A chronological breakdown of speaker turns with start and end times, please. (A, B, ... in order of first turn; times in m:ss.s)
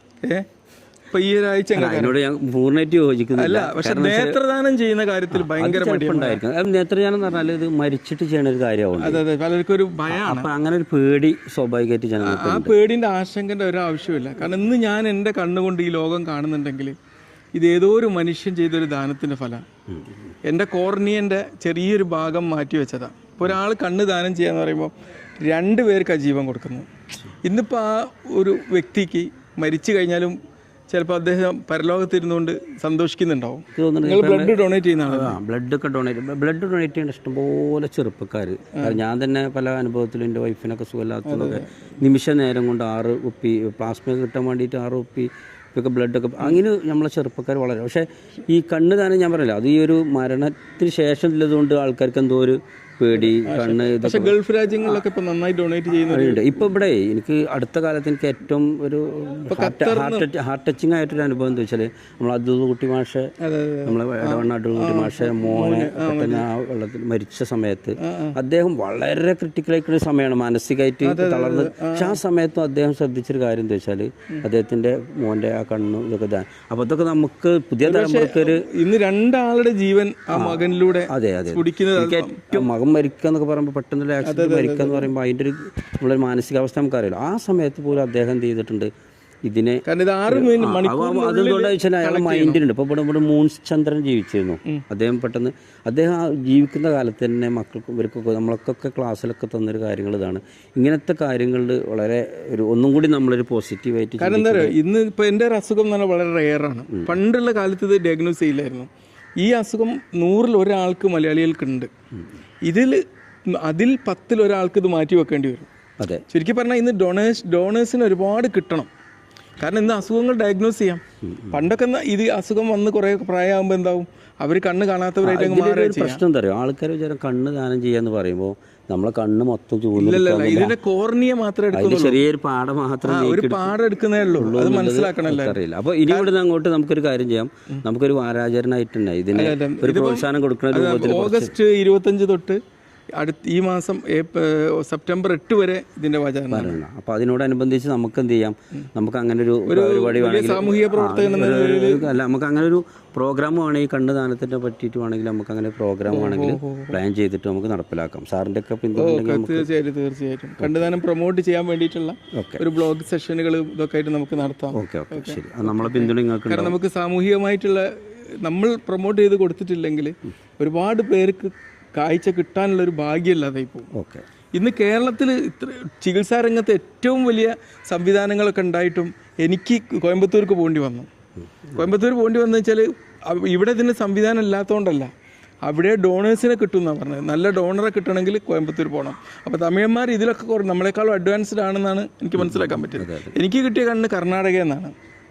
0:01.1-0:02.1 A
0:01.7-0:04.4 B
0:03.3-0:06.4 A
0:05.3-0:09.2 B
0:09.0-0:10.5 A
0:10.1-0:12.7 B
0:12.2-0:16.9 A
0:17.6-0:19.6 A
0:20.4-0:26.9 A
0:27.4-0:30.4 A
0:30.9-0:35.4 A
0:33.7-0:54.3 B
0:41.3-0:41.7 A
0:53.2-0:56.6 A
0:56.0-1:03.3 B
0:59.5-1:00.3 A
1:03.4-1:06.5 A
1:03.8-1:18.6 B
1:08.0-1:08.4 A
1:11.0-1:12.2 A
1:17.8-1:22.7 A
1:20.3-1:28.9 B
1:24.2-1:25.1 A
1:29.5-1:44.7 B
1:29.8-1:32.6 A
1:44.2-1:51.9 A
1:52.6-1:55.7 A
1:56.0-1:56.2 B
1:56.3-1:58.9 A
1:59.6-2:06.2 A
2:01.2-2:01.6 B
2:05.2-2:10.8 B
2:10.0-2:12.2 A
2:11.7-2:13.8 B
2:13.0-2:16.3 A
2:14.3-2:21.5 B
2:19.3-2:22.6 A
2:23.2-2:26.8 A
2:26.5-2:39.7 B
2:29.7-2:32.1 A
2:36.1-2:37.0 A
2:39.0-2:47.9 A
2:40.6-2:40.9 B
2:42.3-2:42.6 B
2:44.7-2:46.8 B
2:48.4-2:53.9 A
2:53.9-2:54.2 B
2:54.5-3:01.1 A
3:01.7-3:05.1 A
3:05.6-3:14.9 A
3:12.4-3:13.4 B